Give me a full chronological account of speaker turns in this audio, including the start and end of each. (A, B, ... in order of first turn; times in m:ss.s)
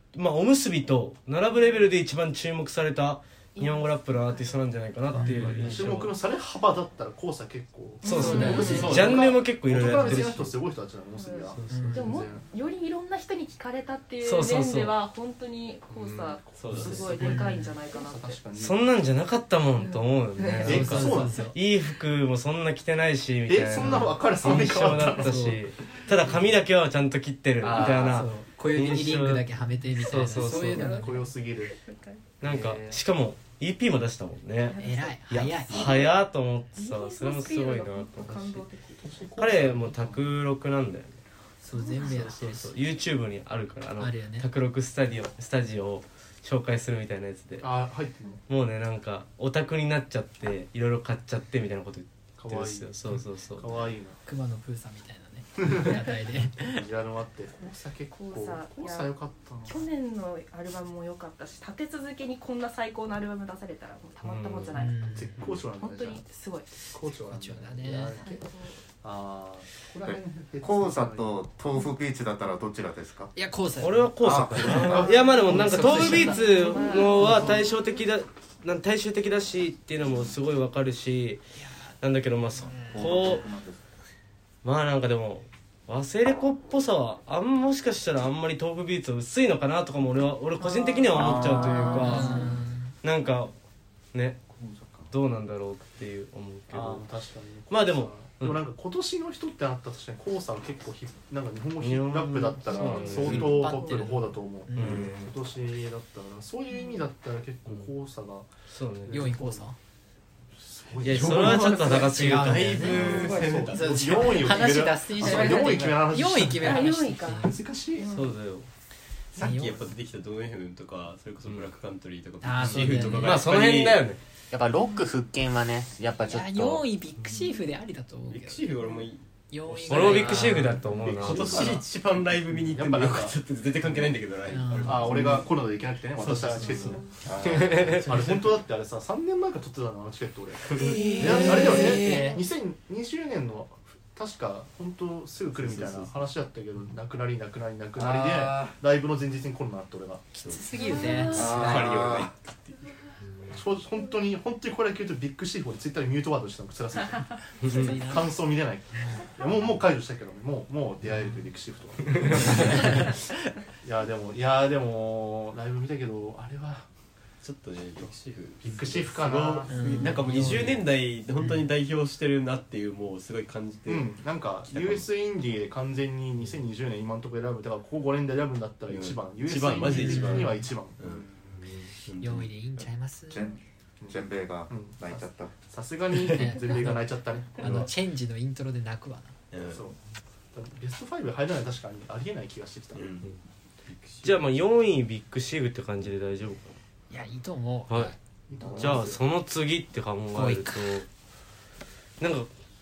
0:00.1-0:06.1 A
0:03.6-0:04.6 B
0:05.1-0:05.8 C
0:05.1-0:12.4 D
0:08.0-0:09.2 B
0:08.0-0:10.5 A
0:08.3-0:08.9 C
0:08.6-0:09.3 E
0:11.2-0:18.4 B
0:11.6-0:12.2 A
0:11.7-0:12.2 C
0:14.2-0:14.9 A
0:15.9-0:18.8 D
0:16.5-0:17.2 E
0:17.2-0:17.8 C
0:18.5-0:29.5 A
0:19.8-0:20.8 B
0:20.6-0:21.5 D
0:20.6-0:21.6 C
0:23.5-0:25.6 D
0:23.8-0:24.2 C
0:27.6-0:28.0 D
0:27.8-0:31.3 C
0:27.8-0:28.0 F
0:30.0-0:31.0 A
0:30.4-0:31.2 B
0:30.8-0:31.7 D
0:32.4-0:34.8 A
0:32.4-0:33.0 D
0:34.6-0:35.2 B
0:34.8-0:36.1 C
0:35.3-0:38.7 A
0:35.7-0:36.1 B
0:36.7-0:39.2 B
0:39.0-0:40.3 D
0:39.4-0:41.2 A
0:41.6-0:42.7 C
0:41.8-0:42.2 B
0:42.0-0:47.7 A
0:44.0-0:44.5 C
0:47.6-0:48.4 D
0:48.5-0:53.9 A
0:52.4-0:54.2 D
0:54.2-0:56.8 C
0:55.6-0:56.0 D
0:56.6-0:59.9 D
0:58.1-0:59.1 B
0:59.6-1:05.1 B
1:04.2-1:04.8 A
1:04.7-1:05.3 C
1:05.1-1:06.2 D
1:05.7-1:06.7 B
1:06.9-1:08.4 D
1:07.3-1:08.2 C
1:08.2-1:08.8 B
1:09.0-1:11.4 D
1:10.0-1:13.3 G
1:13.3-1:17.5 C
1:13.8-1:21.4 A
1:14.2-1:15.1 G
1:14.7-1:16.1 D
1:15.0-1:17.6 B
1:21.6-1:21.9 C
1:22.0-1:23.5 A
1:22.6-1:23.0 C
1:22.8-1:23.8 G
1:24.6-1:32.5 A
1:30.7-1:31.0 B
1:31.1-1:32.0 G
1:31.2-1:31.6 D
1:31.7-1:32.2 B
1:31.9-1:32.9 C
1:33.0-1:33.5 A
1:34.1-1:34.4 A
1:34.5-1:35.1 G
1:35.1-1:37.0 A
1:36.7-1:48.5 D
1:37.7-1:38.6 A
1:41.8-1:43.8 A
1:42.7-1:43.2 B
1:43.2-1:45.1 C
1:44.7-1:45.3 A
1:48.7-1:49.2 A
1:49.0-1:49.6 D
1:49.1-1:49.8 C
1:50.7-1:52.0 D
1:50.9-1:54.3 E
1:51.0-1:53.3 A
1:52.0-1:57.5 C
1:53.0-1:58.1 D
1:53.1-1:53.6 B
1:54.3-1:58.2 B
1:58.1-1:58.7 A
1:59.3-2:04.0 E
1:59.4-1:59.9 C
2:02.4-2:03.5 C
2:03.0-2:04.2 A
2:04.5-2:06.9 F
2:06.2-2:08.8 C
2:08.3-2:15.5 E
2:09.5-2:10.8 C
2:09.9-2:11.7 A
2:11.1-2:11.9 D
2:12.5-2:13.4 D
2:14.5-2:15.2 C
2:14.8-2:30.3 D
2:16.2-2:18.4 E
2:17.2-2:17.9 G
2:17.5-2:18.0 A
2:20.8-2:22.3 E
2:21.0-2:22.4 C
2:25.6-2:26.1 E
2:28.0-2:28.7 G
2:30.3-2:32.1 C
2:30.5-2:32.9 E
2:31.3-2:32.3 G
2:33.5-2:43.1 D
2:37.6-2:37.9 A
2:37.6-2:38.3 C
2:42.4-2:43.1 E
2:43.8-2:46.9 D
2:47.4-2:54.2 E
2:48.0-2:50.2 D
2:49.7-2:50.8 C
2:53.8-3:01.2 D
2:54.7-2:55.1 E
2:58.9-3:02.5 E
2:59.8-3:00.6 C
3:02.2-3:03.5 C
3:02.8-3:05.5 G
3:04.0-3:07.9 D
3:06.3-3:09.3 C
3:09.5-3:09.8 E
3:09.6-3:10.0 D
3:10.5-3:13.2 D
3:12.9-3:13.3 E
3:13.9-3:14.4 E
3:14.2-3:16.8 A
3:17.1-3:18.1 C
3:18.5-3:19.2 D
3:18.8-3:21.1 A
3:20.3-3:21.0 C
3:22.2-3:22.5 A